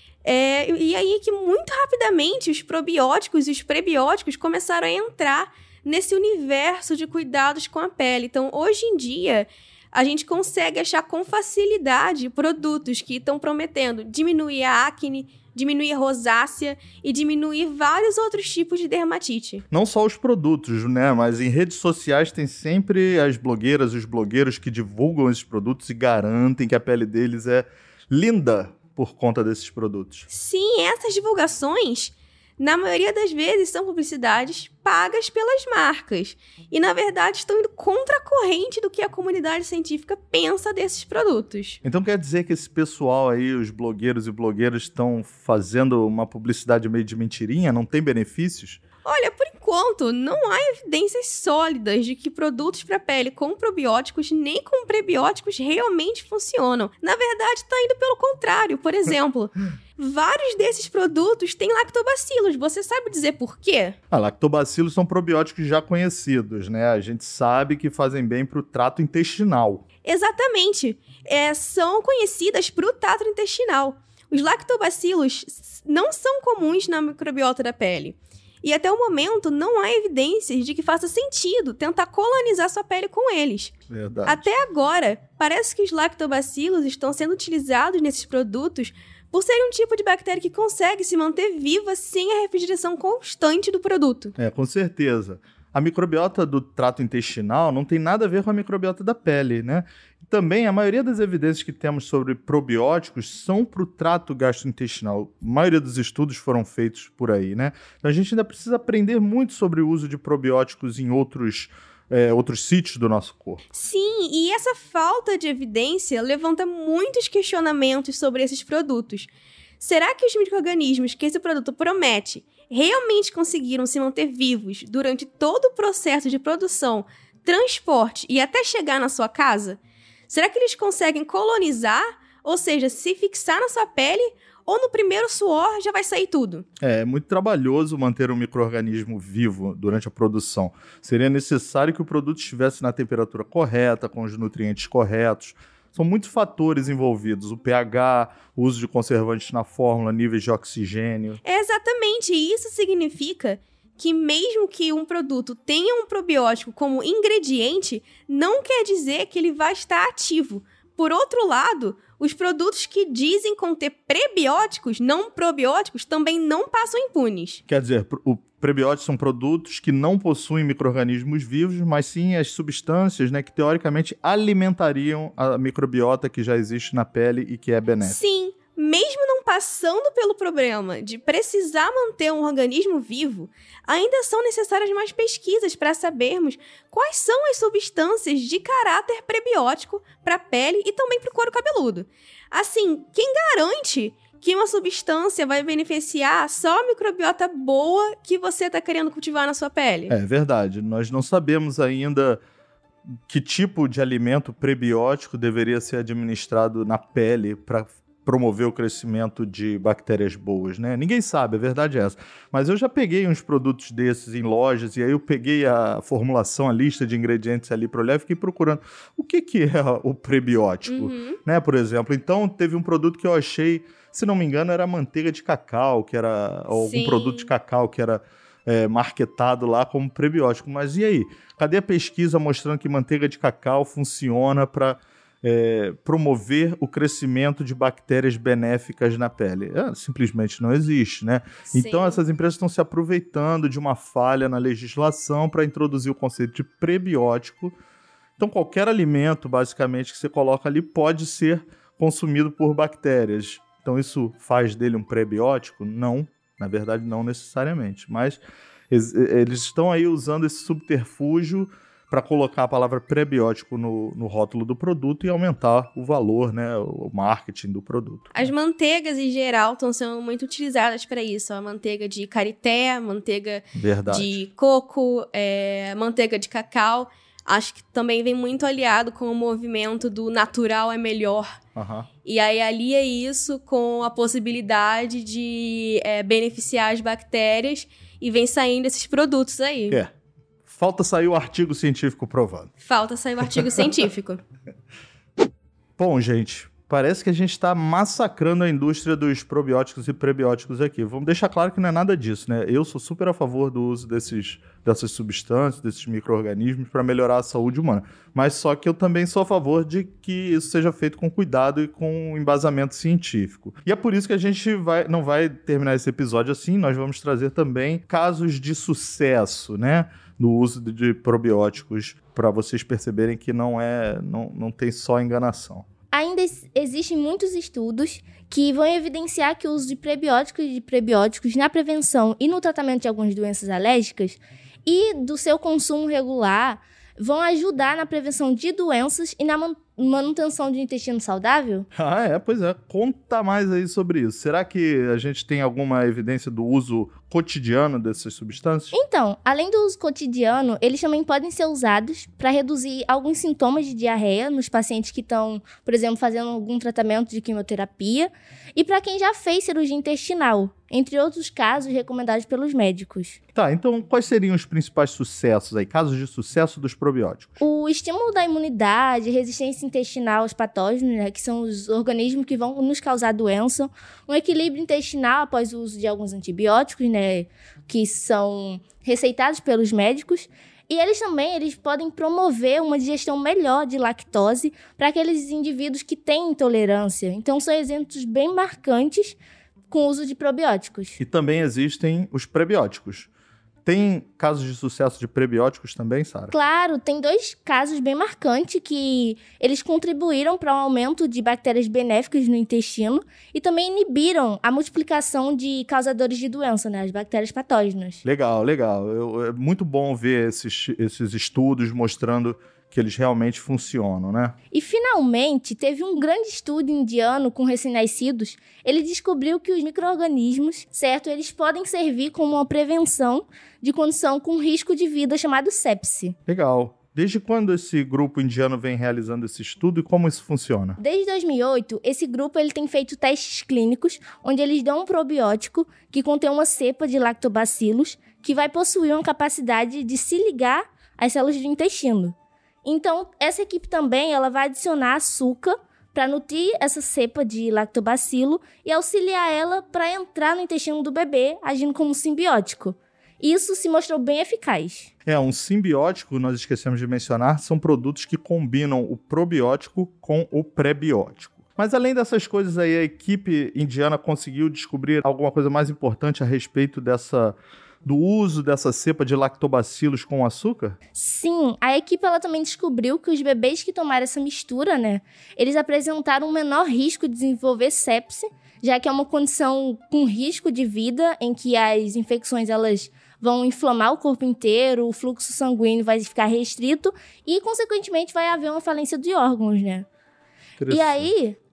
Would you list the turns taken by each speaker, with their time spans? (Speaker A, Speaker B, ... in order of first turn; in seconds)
Speaker A: 0.2-19.6, 30.3-41.8, 49.0-64.0, 70.0-83.7, 84.2-94.3, 113.7-136.7, 151.4-167.6, 178.0-200.2, 220.9-221.4, 226.7-227.5, 241.7-242.2, 268.3-281.5, 282.2-290.0, 292.8-294.4
Speaker B: 19.7-30.3, 41.8-48.8, 64.1-69.8, 83.9-84.5, 94.4-113.6, 136.8-151.4, 167.7-178.2, 200.1-202.4, 203.3-247.8, 248.4-268.3, 273.8-274.4, 281.8-282.1, 290.6-292.7, 296.0-325.9, 341.9-348.9, 363.6-367.6, 391.2-393.3, 393.9-396.5, 408.2-414.6, 426.5-431.0, 455.3-471.0, 490.8-491.3
Speaker C: 326.1-341.9, 348.9-363.4, 367.6-389.4, 389.9-391.2, 396.5-408.2, 414.7-426.4, 431.0-455.1, 471.1-490.1, 490.9-491.6